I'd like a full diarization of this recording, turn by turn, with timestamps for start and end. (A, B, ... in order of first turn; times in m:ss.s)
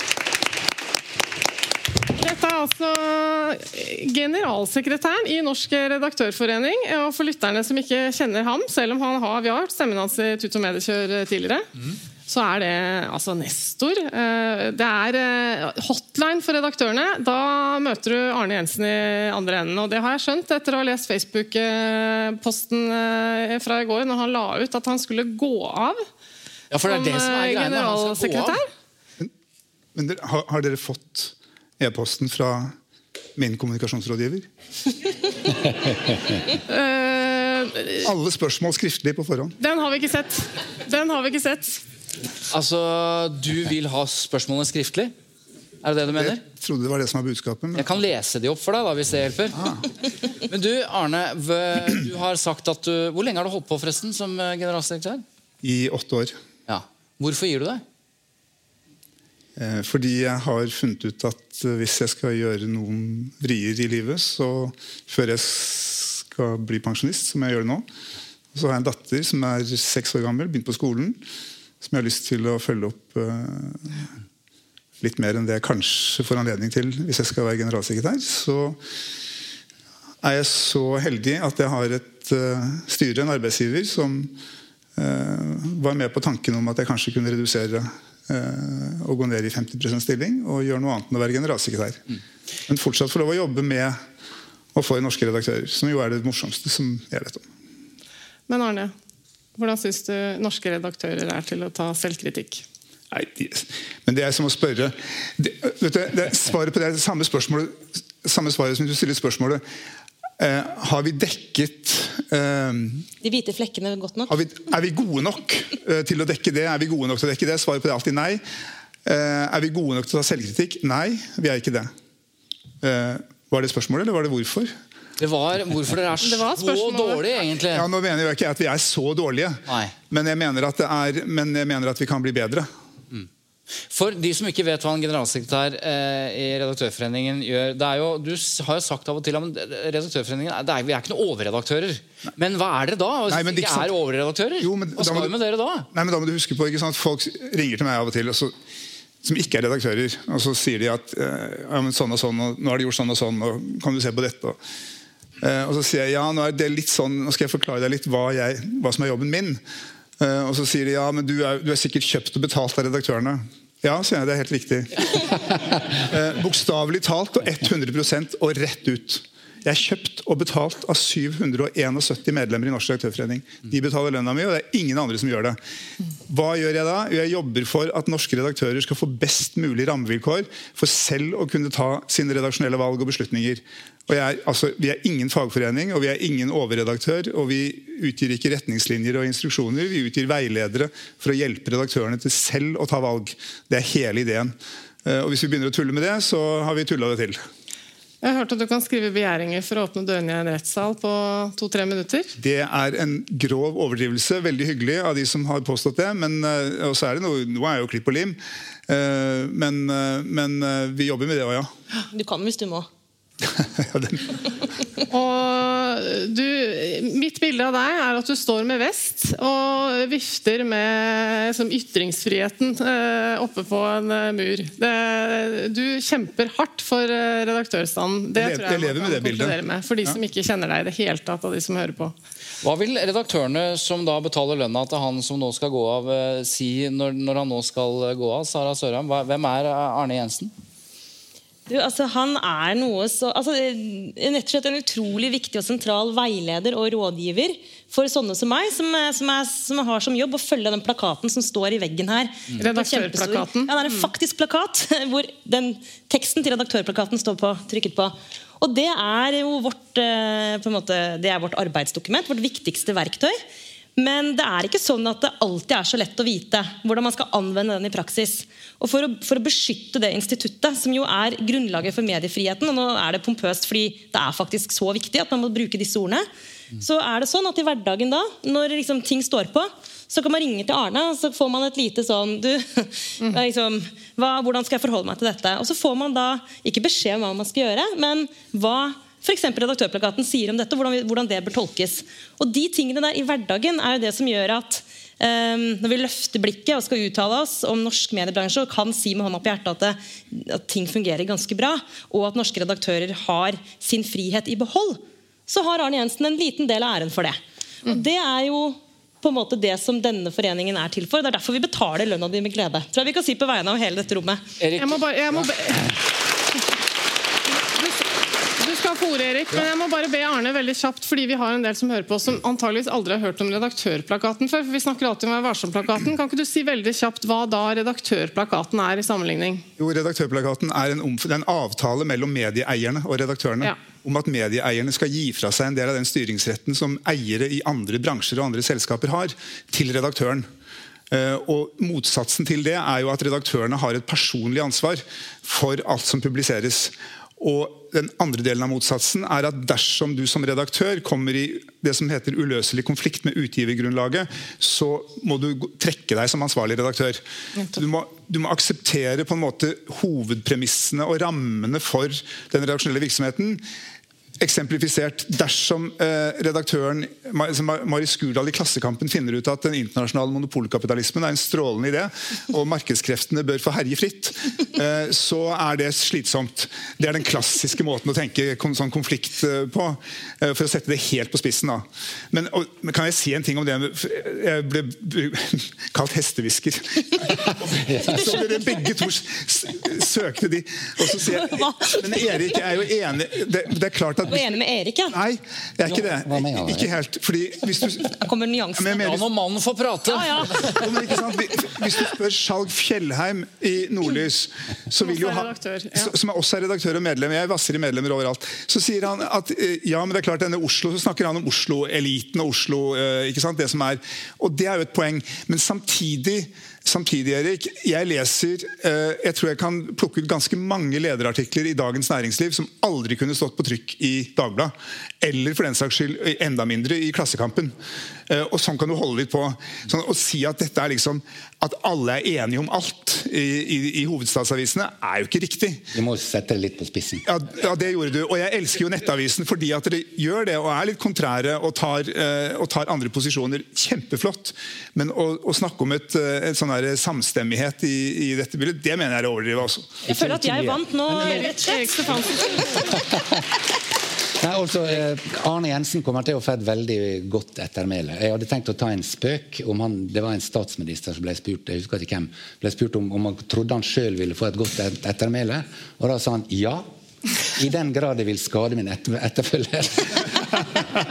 0:02.1-0:11.7 A
0:12.3-0:26.1 A
0:26.7-0:28.6 B
0:26.8-0:28.6 A
0:30.0-0:32.8 C
0:33.4-0:34.5 C
0:36.7-0:38.1 A
0:38.0-0:39.6 C
0:39.6-0:41.8 A
0:42.5-0:45.1 B
0:45.8-0:46.4 B
0:46.1-0:47.9 C
0:47.8-0:49.6 B
0:49.5-0:49.9 C
0:50.5-0:55.2 B
0:55.6-0:56.4 C
0:56.7-0:57.8 B
0:59.6-1:07.8 C
1:08.5-1:11.2 C
1:11.8-1:14.1 C
1:15.0-1:18.8 C
1:20.2-1:24.3 C
1:25.0-1:32.0 C
1:32.7-1:34.0 C
1:34.8-1:37.4 C
1:38.5-1:38.9 A
1:39.6-1:42.6 A
1:43.1-1:49.6 C
1:50.4-1:53.1 C
1:53.2-1:54.4 D
1:54.3-1:58.4 C
1:59.0-2:01.9 C
2:02.8-2:04.7 C
2:05.2-2:07.9 B
2:06.2-2:07.2 A
2:07.7-2:12.7 C
2:09.7-2:09.9 B
2:13.9-2:25.9 B
2:23.3-2:23.9 C
2:24.6-2:25.4 C
2:25.9-2:28.5 C
2:29.2-2:34.6 C
2:35.4-2:39.6 C
2:40.2-2:45.3 C
2:46.1-2:55.6 C
2:56.3-3:14.5 C
3:15.0-3:17.4 C
3:18.2-3:22.3 A
3:22.4-3:31.7 C
3:32.1-3:32.9 D
3:33.4-3:34.3 C
3:35.1-3:52.1 A
3:48.4-3:50.2 C
3:52.6-4:00.5 B
4:01.7-4:23.4 D
4:12.6-4:14.1 A
4:24.0-4:36.3 D
4:36.8-5:14.4 D
5:14.6-5:15.5 B
5:14.8-5:15.9 A
5:18.6-5:29.7 A
5:29.8-5:40.5 C
5:41.1-5:57.2 C
5:57.7-6:03.6 C
6:04.4-6:27.5 C
6:27.7-6:28.2 E
6:28.0-6:34.5 C
6:28.0-6:28.8 D
6:31.0-6:32.7 D
6:34.3-6:35.2 D
6:35.1-6:38.2 C
6:35.9-6:36.9 E
6:38.0-6:39.0 D
6:38.8-6:39.3 C
6:39.0-6:40.6 B
6:40.1-6:40.9 D
6:40.6-7:07.8 C
6:45.0-6:46.1 A
7:08.3-7:15.9 C
7:15.9-7:17.2 E
7:17.2-7:30.1 C
7:30.0-7:32.9 D
7:31.1-7:32.9 A
7:34.4-7:46.9 E
7:47.6-7:50.8 E